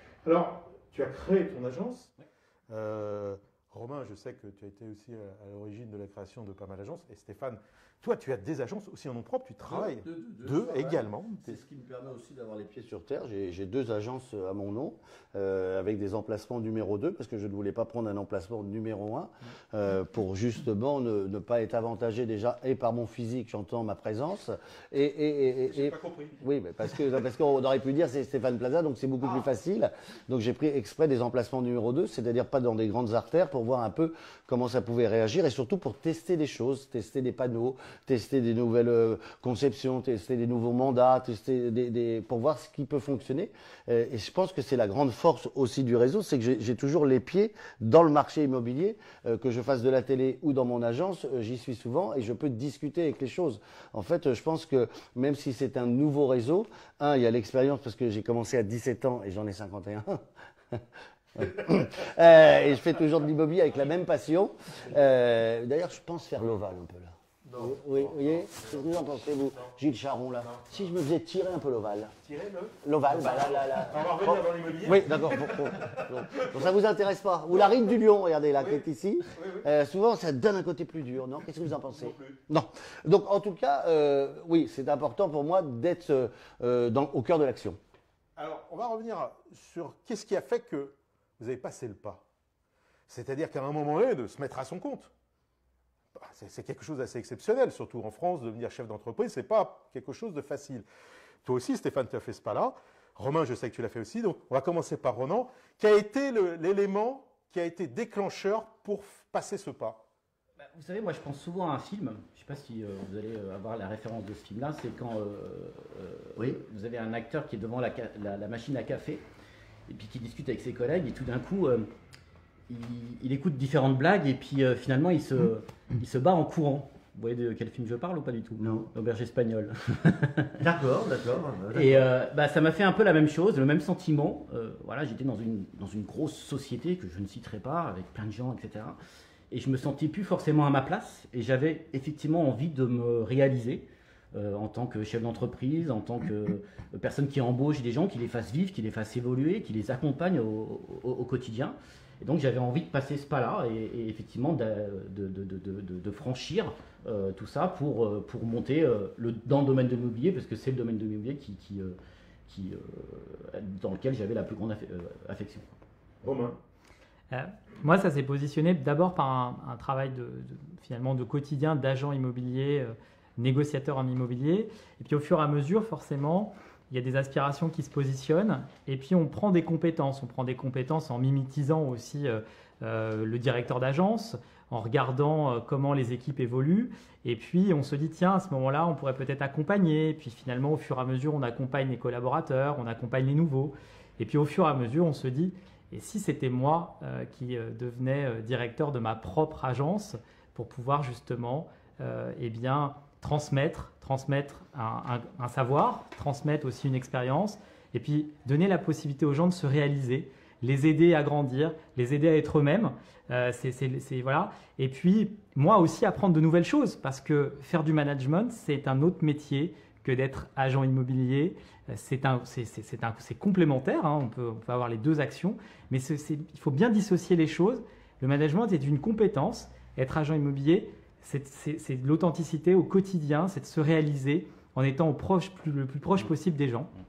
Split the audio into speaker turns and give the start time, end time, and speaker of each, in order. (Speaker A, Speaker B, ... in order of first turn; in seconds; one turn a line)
Speaker A: 0.2-2.1
Speaker A: 2.7-11.6
Speaker B: 9.6-72.2
Speaker A: 25.7-26.4
Speaker A: 67.5-68.9
Speaker A: 70.4-70.9
Speaker A: 72.2-76.7
Speaker B: 72.8-87.8
Speaker A: 78.6-79.7
Speaker A: 81.9-82.4
Speaker A: 88.4-92.2
Speaker A: 93.1-95.1
Speaker A: 96.2-100.8
Speaker A: 101.4-110.0
Speaker C: 110.6-119.2
Speaker C: 119.9-121.9
Speaker C: 122.7-130.6
Speaker B: 128.6-128.9
Speaker B: 130.6-132.1
Speaker C: 131.7-139.0
Speaker C: 139.5-162.0
Speaker C: 162.5-165.7
Speaker A: 166.2-166.6
Speaker D: 167.3-236.9